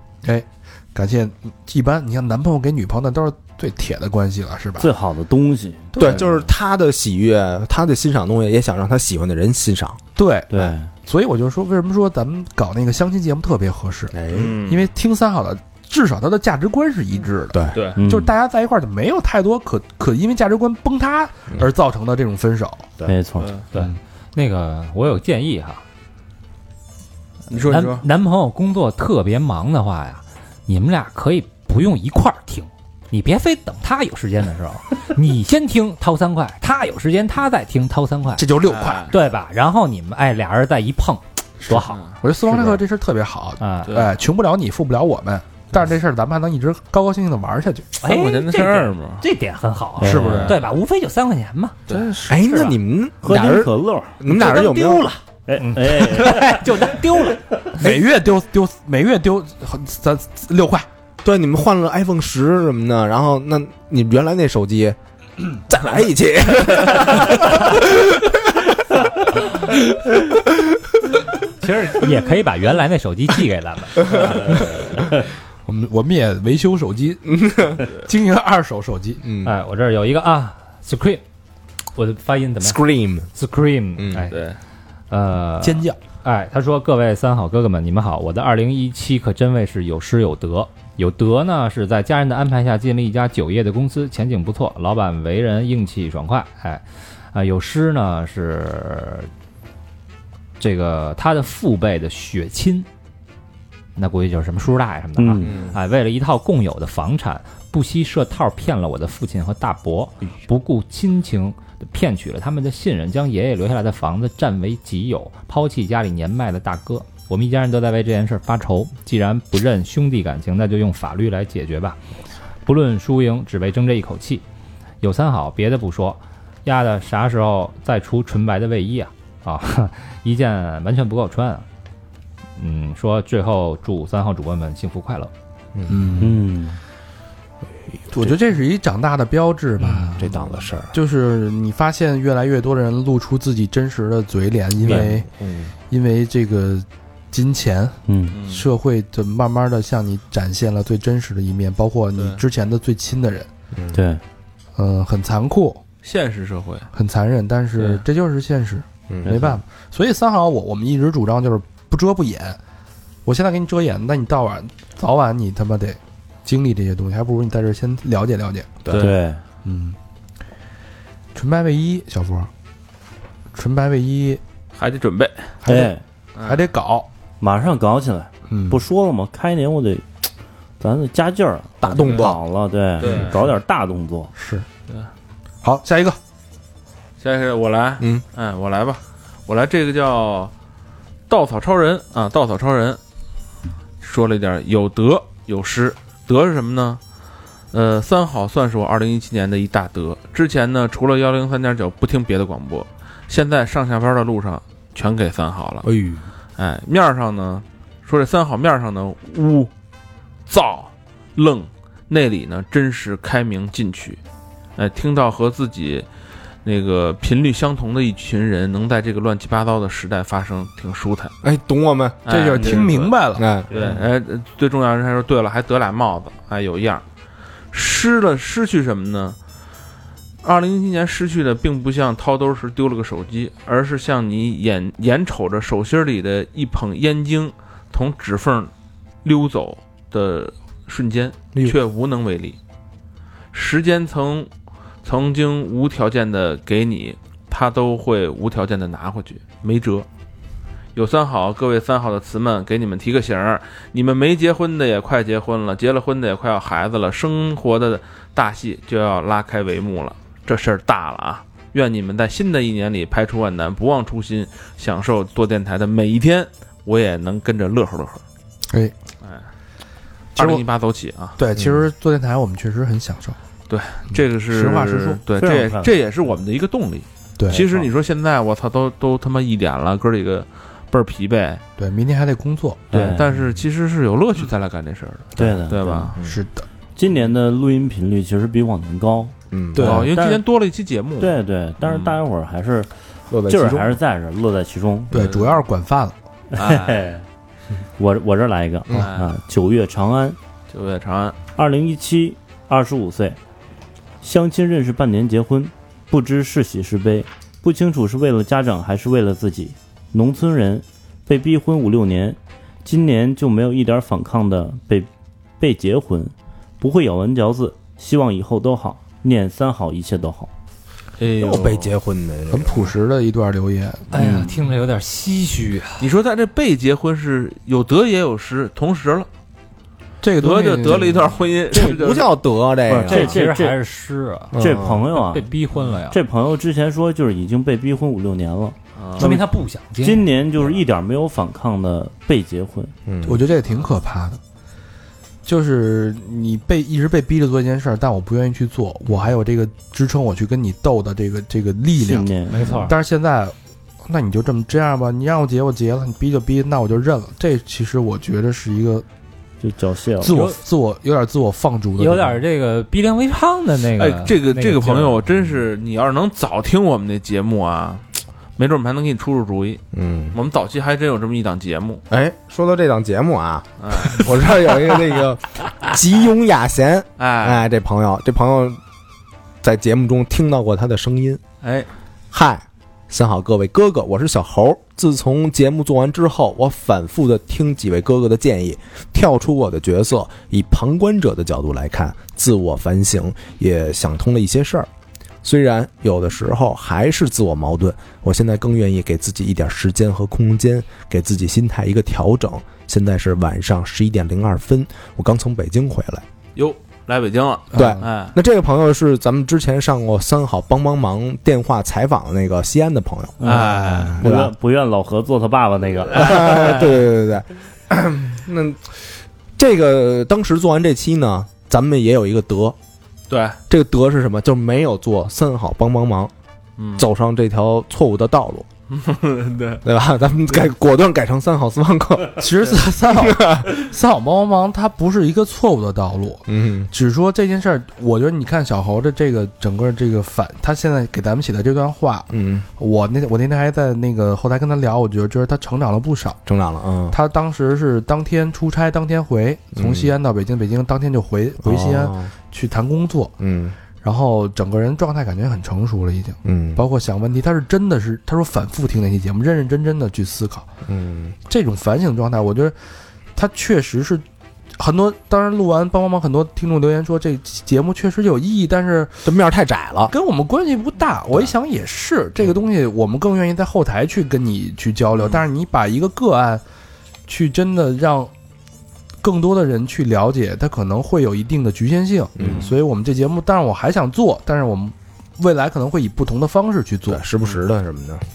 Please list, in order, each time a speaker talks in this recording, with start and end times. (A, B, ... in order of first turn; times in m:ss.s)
0:00.2-0:04.9 A
0:04.8-0:06.3 B
0:05.9-0:06.4 A
0:06.0-0:10.0 C
0:10.2-0:22.9 A
0:10.5-0:10.9 B
0:14.1-0:14.6 C
0:14.3-0:14.9 D
0:17.5-0:17.8 C
0:17.7-0:18.0 D
0:18.0-0:18.3 B
0:23.1-0:23.5 B
0:23.4-0:23.6 D
0:23.7-0:25.8 E
0:27.5-0:28.0 D
0:27.5-0:38.4 E
0:38.4-0:39.1 A
0:38.6-0:39.1 D
0:39.1-0:42.0 E
0:41.6-0:48.0 A
0:41.8-0:42.2 D
0:43.6-0:43.9 E
0:48.0-0:52.8 E
0:48.0-0:49.2 D
0:50.0-0:50.5 B
0:50.0-0:50.5 A
0:50.1-0:50.6 D
0:52.3-0:55.1 C
0:53.2-0:54.2 B
0:54.3-0:57.4 E
0:55.5-0:56.6 B
0:57.8-1:00.8 A
1:01.2-1:05.0 C
1:05.5-1:08.3 C
1:11.6-1:14.3 E
1:15.6-1:19.2 A
1:17.3-1:17.8 C
1:19.2-1:19.5 C
1:19.4-1:21.2 E
1:21.9-1:22.8 E
1:22.6-1:23.3 C
1:23.3-1:24.4 E
1:24.0-1:24.2 C
1:24.2-1:24.6 D
1:25.1-1:39.3 E
1:25.6-1:26.0 A
1:40.6-1:42.9 E
1:44.0-2:02.0 E
1:45.2-1:45.6 B
2:02.6-2:04.4 E
2:05.0-2:11.6 E
2:12.6-2:15.3 E
2:15.7-2:16.3 C
2:15.9-2:16.4 A
2:16.2-2:16.8 B
2:18.1-2:20.3 A
2:19.8-2:20.9 C
2:20.9-2:25.3 A
2:24.8-2:25.7 C
2:24.8-2:25.1 B
2:25.9-2:33.5 A
2:28.1-2:28.4 B
2:28.3-2:28.7 D
2:32.1-2:32.4 D
2:33.7-2:34.0 C
2:33.9-2:34.2 B
2:34.8-2:35.8 A
2:36.0-2:36.9 D
2:36.9-2:42.6 A
2:37.8-2:38.0 D
2:39.1-2:39.6 C
2:43.2-2:48.8 A
2:48.9-2:49.1 D
2:49.0-2:49.4 B
2:49.6-2:50.0 A
2:51.3-2:52.5 A
2:53.5-2:54.4 A
2:54.8-2:55.5 D
2:55.6-2:57.1 A
2:55.6-2:56.0 B
2:56.4-2:56.7 D
2:57.4-3:00.0 B
2:58.5-2:58.8 A
3:00.8-3:04.3 B
3:01.8-3:02.4 C
3:03.0-3:03.4 D
3:04.4-3:04.6 A
3:05.6-3:06.2 A
3:07.2-3:10.5 D
3:11.3-3:13.0 D
3:14.0-3:17.0 D
3:17.7-3:25.8 D
3:25.8-3:26.2 C
3:26.6-3:29.7 D
3:30.5-3:34.2 D
3:34.8-3:36.1 D
3:36.6-3:41.3 D
3:41.4-3:42.2 C
3:42.2-3:43.1 D
3:42.3-3:43.5 A
3:43.4-3:43.7 C
3:43.7-3:44.0 B
3:43.7-3:47.0 D
3:47.7-3:49.4 D
3:50.4-3:58.7 D
3:59.2-4:02.6 D
4:03.5-4:04.5 D
4:05.0-4:10.0 D
4:10.9-4:28.2 D
4:30.3-4:31.4 D
4:30.4-4:30.6 A
4:31.4-4:33.4 A
4:31.6-4:31.8 C
4:33.7-4:41.6 D
4:34.1-4:35.2 A
4:35.4-4:35.9 B
4:37.5-4:37.9 B
4:41.8-4:43.1 A
4:42.9-4:43.3 B
4:43.0-4:46.2 D
4:45.4-4:46.1 B
4:46.1-4:46.4 C
4:46.2-4:46.6 A
4:47.0-4:50.4 B
4:49.5-4:50.0 C
4:49.7-4:50.1 A
4:49.8-4:52.2 D
4:51.2-4:52.9 B
4:53.3-4:53.9 C
4:53.5-4:55.3 B
4:55.1-4:56.1 A
4:56.5-4:57.2 B
4:56.5-4:57.0 D
4:58.0-5:00.4 B
4:58.9-4:59.3 D
5:00.7-5:01.4 D
5:01.6-5:03.4 B
5:04.2-5:15.1 B
5:15.6-5:20.5 B
5:21.2-5:21.9 D
5:21.4-5:23.0 C
5:22.5-5:24.1 A
5:24.1-5:26.1 E
5:24.1-5:24.5 B
5:26.0-5:29.3 D
5:30.2-5:31.4 A
5:30.4-5:32.3 D
5:31.7-5:33.4 C
5:32.9-5:33.8 B
5:33.1-5:34.6 E
5:34.5-5:35.0 C
5:34.6-5:35.5 B
5:35.1-5:36.2 E
5:36.1-5:39.4 B
5:39.0-5:39.3 D
5:39.2-5:40.2 E
5:40.0-5:42.9 B
5:43.1-5:43.4 C
5:43.2-5:44.4 A
5:45.4-5:53.5 A
5:52.0-5:52.6 B
5:52.5-5:52.9 E
5:54.1-5:59.0 A
5:59.6-6:00.4 B
6:00.2-6:02.4 A
6:00.2-6:00.6 E
6:02.0-6:05.2 E
6:04.0-6:08.0 D
6:08.6-6:09.8 D
6:09.9-6:10.4 C
6:10.3-6:12.0 D
6:12.1-6:18.8 C
6:13.8-6:14.3 D
6:17.2-6:17.6 D
6:19.6-6:21.4 C
6:21.6-6:21.9 D
6:22.3-6:34.9 C
6:35.4-6:46.2 C
6:46.6-6:48.3 D
6:47.7-6:48.1 A
6:47.7-6:54.5 C
6:53.4-6:56.6 B
6:53.4-6:54.2 D
6:56.1-6:58.9 C
6:59.6-7:02.8 C
7:03.3-7:03.6 D
7:03.7-7:06.3 C
7:06.8-7:07.0 D
7:07.0-7:08.7 C
7:08.9-7:09.8 D
7:09.8-7:13.7 C
7:12.4-7:26.4 A
7:16.5-7:16.9 C
7:22.3-7:22.6 C
7:26.4-7:27.2 C
7:27.1-7:33.3 A
7:29.8-7:30.1 C
7:31.6-7:32.3 C
7:33.4-7:33.8 C
7:34.0-7:40.7 A
7:36.4-7:36.8 C
7:40.8-7:41.4 C
7:41.5-7:42.7 A
7:43.3-7:44.2 A
7:44.8-7:49.2 A
7:49.2-7:50.1 C
7:50.1-7:56.6 A
7:57.3-7:58.3 A
7:59.2-8:07.2 A
8:02.4-8:02.6 C
8:07.1-8:08.2 C